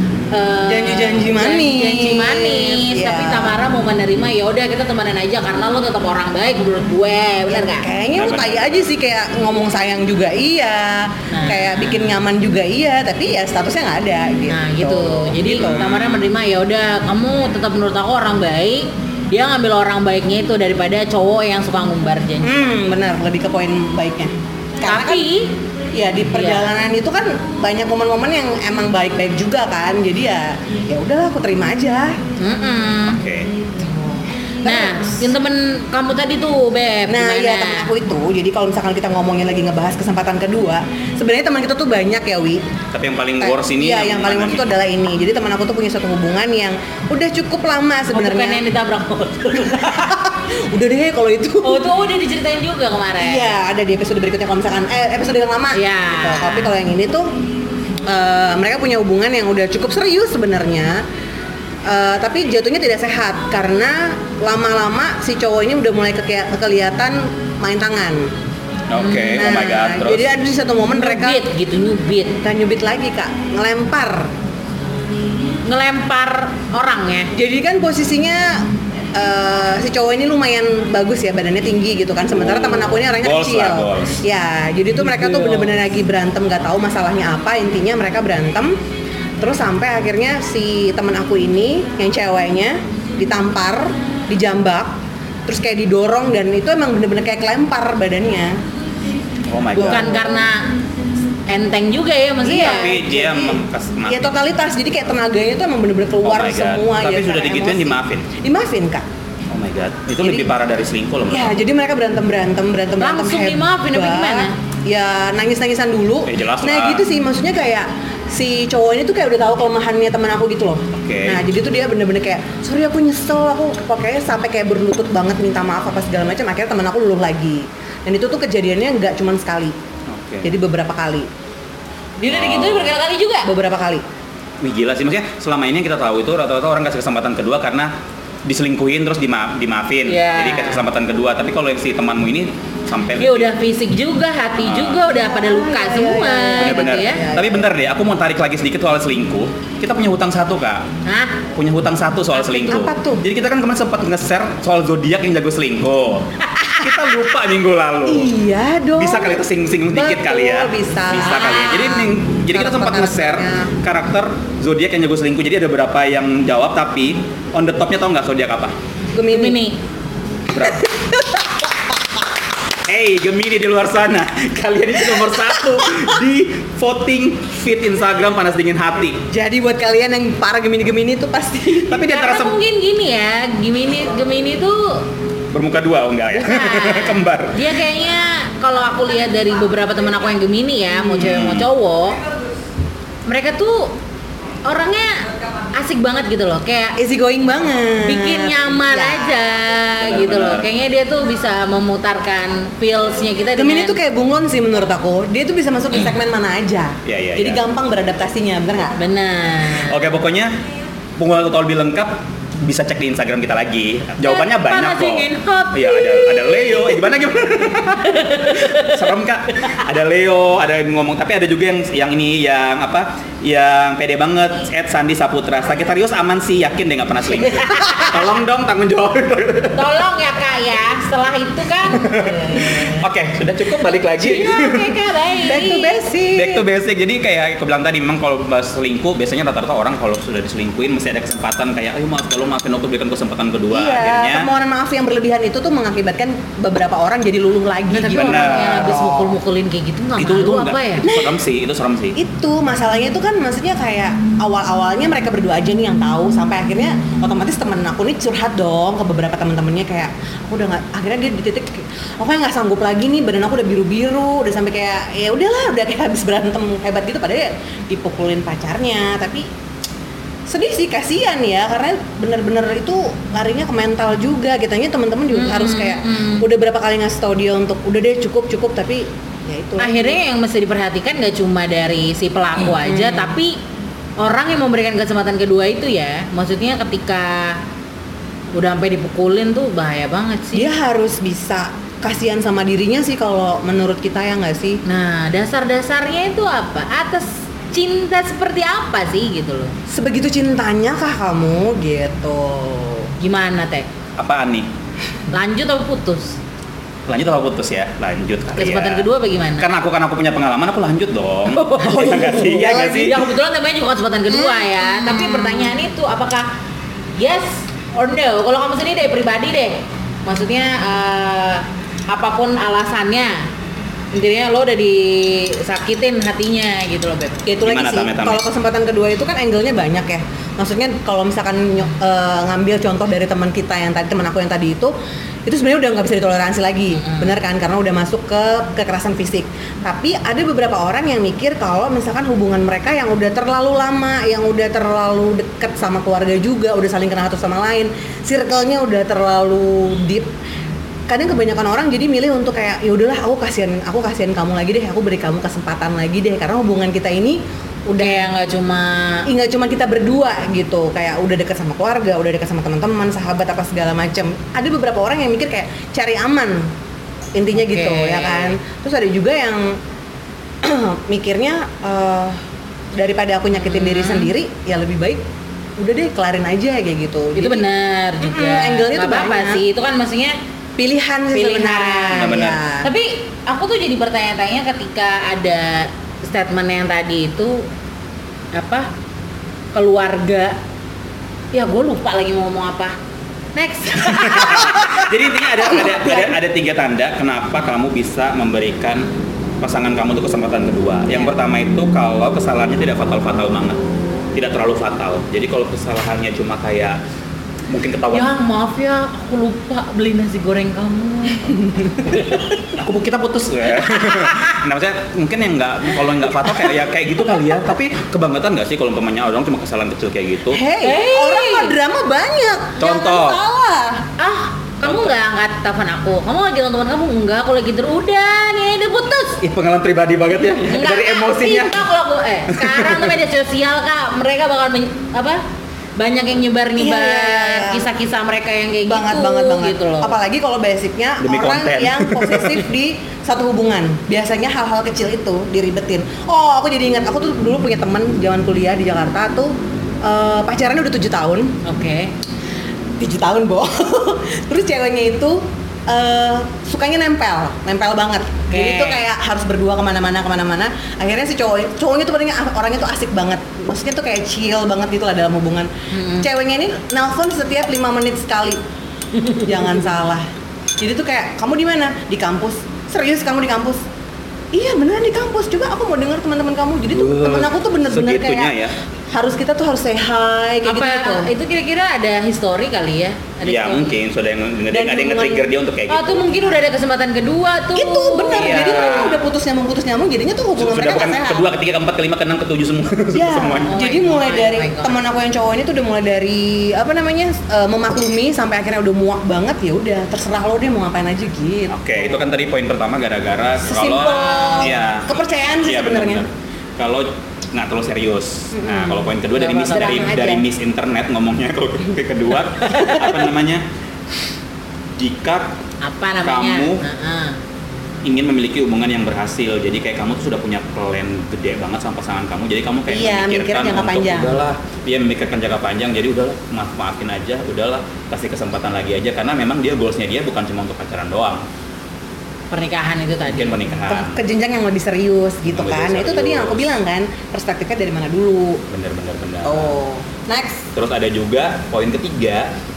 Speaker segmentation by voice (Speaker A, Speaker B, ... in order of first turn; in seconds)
Speaker A: 0.3-7.9, 11.3-12.1, 14.5-22.6, 24.8-25.5, 26.3-26.7, 32.4-33.2, 34.6-37.9, 48.1-50.1, 51.6-53.5, 55.7-56.7, 69.0-69.5, 70.9-72.4, 75.7-77.3, 85.0-85.7, 99.7-100.7, 101.5-103.0, 113.0-114.5, 132.2-133.5, 140.1-140.8, 143.2-147.2, 151.1-151.4, 156.5-157.0, 161.2-162.0, 169.3-169.8, 182.0-185.0, 186.3-192.2, 193.3-193.9, 194.7-197.0, 198.0-204.0, 209.0-210.0, 214.2-217.1, 217.9-219.0, 227.4-228.3, 229.8-232.9, 234.2-236.0, 247.9-251.1, 275.3-276.5, 279.8-283.6, 284.2-287.6, 288.5-290.7, 294.9-299.8, 303.2-303.9, 305.3-306.4, 308.6-309.7, 311.5-316.5, 317.2-323.5, 324.1-327.4, 337.0-337.3, 358.0-359.3, 367.6-368.6, 373.6-374.3, 377.4-380.4, 381.3-387.7, 388.5-388.9, 389.7-390.6, 391.5-393.0, 393.6-395.1, 395.8-396.2, 408.1-412.5, 413.9-414.5, 420.8-421.8, 424.2-429.4, 430.6-435.4, 436.0-440.2, 451.6-452.1, 458.5-459.0, 465.9-466.3, 480.6-484.0, 485.9-489.1, 493.7-495.0, 504.3-504.7, 509.4-510.3, 512.6-513.1, 515.8-517.4, 532.5-533.7
Speaker B: 0.7-3.6, 7.5-15.9, 22.4-25.3, 25.9-32.2, 33.8-35.2, 37.1-42.6, 43.4-48.6, 49.7-51.9, 53.2-57.3, 58.0-61.0, 61.9-68.3, 69.3-71.4, 72.4-74.3, 77.3-88.8, 89.4-95.0, 95.5-98.6, 99.7-100.4, 102.5-109.0, 110.2-110.5, 111.3-129.8, 130.4-131.3, 133.4-134.0, 145.1-147.7, 152.4-153.2, 158.1-163.7, 169.1-169.6, 170.6-171.6, 179.3-182.1, 197.0-199.4, 203.6-209.0, 235.4-236.7, 243.7-249.4, 251.0-251.4, 252.2-269.5, 270.5-280.2, 282.7-283.4, 290.5-294.8, 299.9-303.1, 311.8-313.1, 314.3-315.7, 327.4-334.9, 335.4-350.3, 351.1-358.3, 359.3-366.7, 367.4-369.8, 370.6-372.4, 372.9-375.2, 375.8-377.7, 378.2-379.6, 380.8-382.9, 420.5-424.1, 436.8-437.9, 438.9-449.5, 450.0-451.6, 453.0-468.6, 469.4-470.3, 470.8-473.9, 474.5-478.6, 479.1-481.3, 484.7-485.5, 487.7-491.5, 493.1-502.2, 503.6-506.2, 508.5-510.4, 522.9-524.4, 533.9-538.6, 539.5-540.7
Speaker C: 8.1-8.8, 15.5-16.1, 33.1-33.5, 42.9-44.7, 68.9-70.4, 82.3-84.2, 99.5-100.3, 102.5-104.3, 106.2-108.3, 109.5-111.6, 116.3-117.1, 120.9-121.4, 130.1-130.6, 132.3-133.0, 134.6-137.9, 138.4-143.5, 144.6-145.0, 146.6-150.8, 151.6-158.3, 159.0-168.8, 170.5-170.9, 172.9-179.2, 181.9-182.6, 185.5-187.6, 191.1-191.7, 200.0-200.7, 207.1-207.6, 209.8-210.6, 211.2-229.9, 231.9-235.0, 236.3-244.5, 248.1-249.0, 250.2-252.2, 304.2-304.7, 307.1-313.3, 327.6-328.4, 382.1-382.6, 394.0-399.1, 399.6-403.8, 404.4-407.0, 407.7-408.3, 412.6-420.6, 422.8-423.4, 424.8-425.1, 429.4-431.8, 432.5-433.2, 441.2-442.6, 476.9-478.7, 483.4-486.2, 488.3-489.2, 490.6-493.7, 501.7-505.1, 505.6-513.6, 515.0-515.5, 516.2-516.8, 518.0-531.4, 533.3-534.2, 535.5-536.8, 538.7-539.7, 540.8-542.5